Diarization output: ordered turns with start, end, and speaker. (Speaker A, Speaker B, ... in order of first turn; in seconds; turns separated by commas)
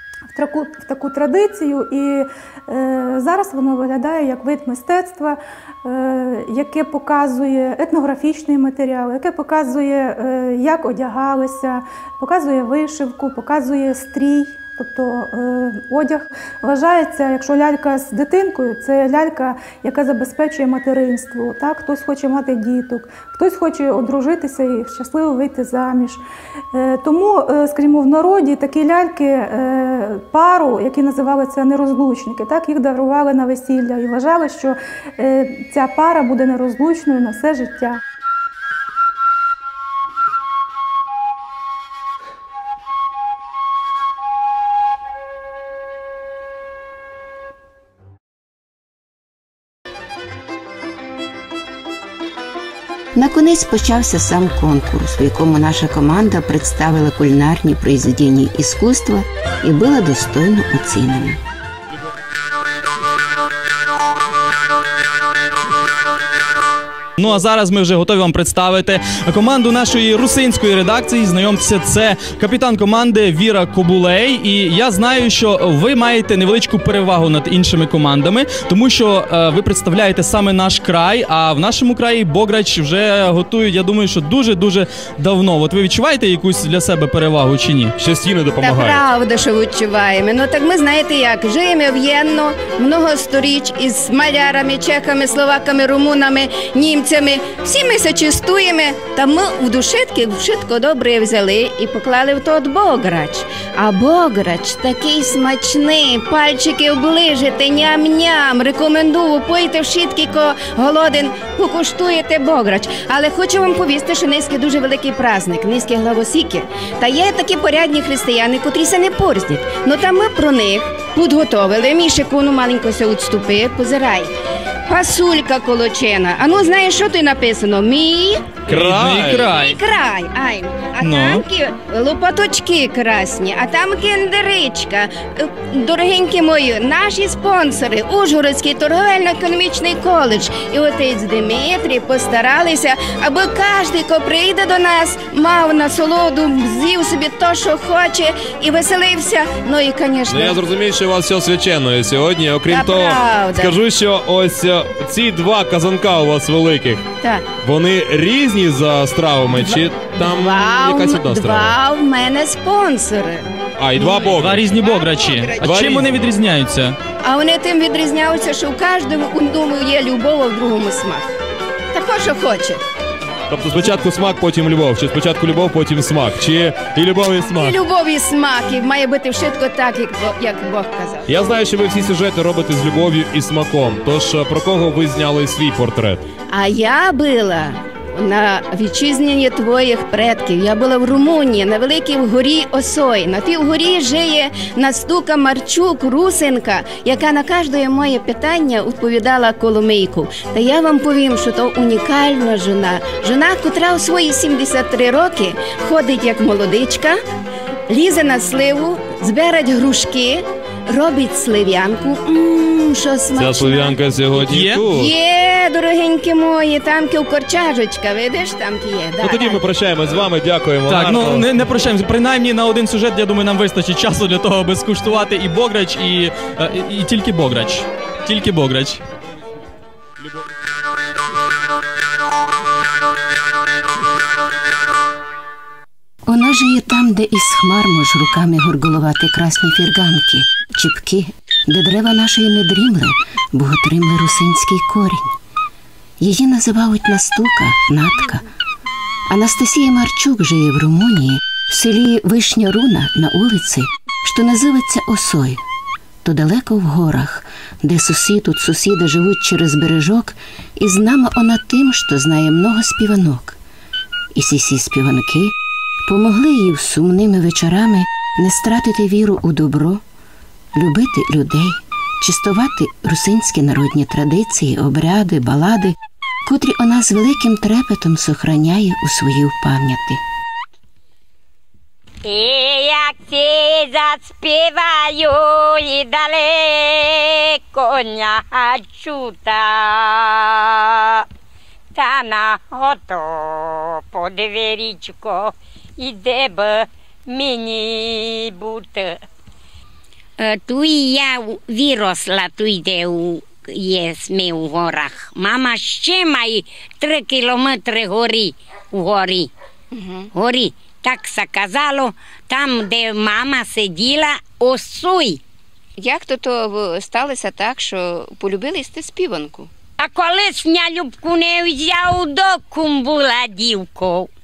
Speaker A: 0.3-38.0, Speaker B: 53.1-61.4, Speaker C: 67.2-87.9, Speaker D: 88.0-89.0, Speaker E: 88.6-124.3, Speaker E: 124.9-128.6, Speaker D: 128.7-129.5, Speaker C: 128.7-129.8, Speaker E: 129.5-150.6, Speaker C: 131.0-131.4, Speaker D: 150.3-157.0, Speaker E: 152.7-153.8, Speaker D: 157.6-161.7, Speaker E: 159.6-165.9, Speaker D: 163.8-164.7, Speaker C: 164.2-167.0, Speaker D: 165.6-166.1, Speaker E: 167.2-171.3, Speaker E: 171.9-172.8, Speaker D: 173.5-177.8, Speaker E: 177.5-181.3, Speaker D: 181.3-186.2, Speaker E: 186.5-207.2, Speaker E: 207.9-214.0, Speaker D: 213.3-215.1, Speaker C: 214.5-214.8, Speaker E: 214.9-219.7, Speaker D: 219.2-221.5, Speaker C: 220.9-229.0, Speaker B: 236.3-245.3, Speaker B: 246.2-248.5, Speaker B: 249.3-255.6, Speaker B: 256.2-263.6, Speaker B: 264.4-265.5, Speaker B: 266.1-270.0, Speaker B: 270.8-280.2, Speaker F: 282.2-291.3, Speaker F: 291.9-299.2, Speaker F: 300.4-309.5, Speaker E: 309.9-310.3, Speaker F: 310.3-315.4, Speaker E: 316.0-319.7, Speaker F: 320.0-324.3